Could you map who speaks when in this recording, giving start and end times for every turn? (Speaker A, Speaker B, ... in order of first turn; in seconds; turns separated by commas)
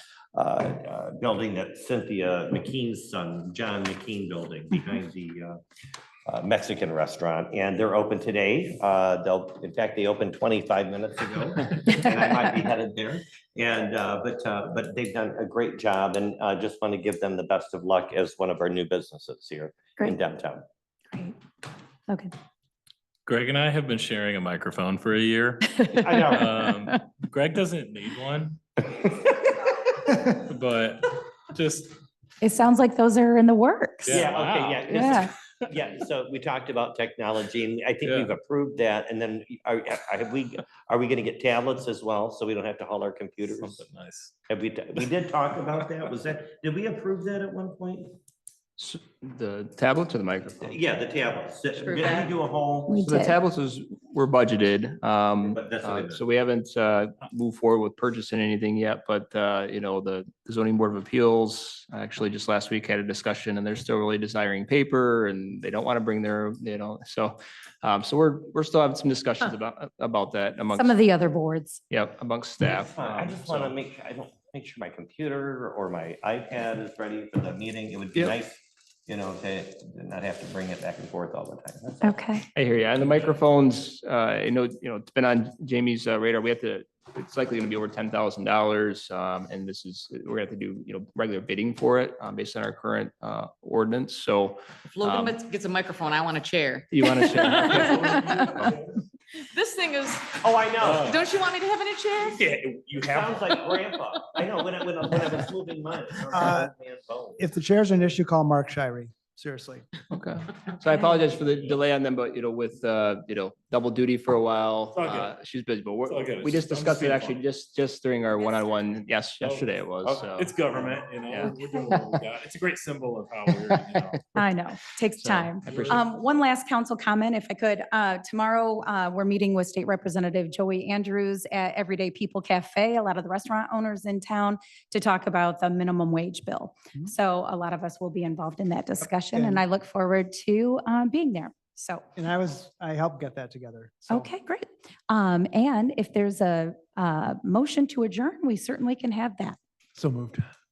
Speaker A: 0.3-5.6, Speaker A: 6.3-20.6, Speaker B: 23.3-28.6, Speaker A: 25.9-26.5, Speaker B: 30.2-31.9, Speaker C: 32.4-34.3, Speaker B: 34.0-35.3, Speaker A: 34.1-43.8, Speaker C: 34.9-35.3, Speaker B: 38.0-38.3, Speaker B: 43.6-44.3, Speaker A: 44.5-48.1, Speaker D: 48.8-50.8, Speaker A: 50.6-53.0, Speaker E: 51.8-52.3, Speaker C: 52.9-53.4, Speaker D: 53.0-71.0, Speaker A: 55.4-56.2, Speaker C: 70.7-71.8, Speaker D: 71.9-73.7, Speaker A: 72.6-82.2, Speaker C: 82.0-82.5, Speaker D: 82.5-95.4, Speaker E: 94.9-97.9, Speaker D: 96.9-98.8, Speaker B: 97.6-99.0, Speaker E: 99.4-102.5, Speaker A: 100.4-101.2, Speaker B: 100.8-101.2, Speaker B: 102.3-103.5, Speaker A: 103.0-107.5, Speaker F: 106.3-106.7, Speaker F: 107.4-109.9, Speaker D: 110.1-120.6, Speaker B: 114.9-115.3, Speaker B: 116.0-117.4, Speaker B: 119.4-124.2, Speaker D: 121.3-122.1, Speaker D: 123.7-124.0, Speaker C: 124.3-142.0, Speaker D: 125.2-126.0, Speaker B: 125.7-126.0, Speaker F: 139.3-139.6, Speaker F: 142.1-144.3, Speaker C: 144.1-149.6, Speaker F: 150.0-150.4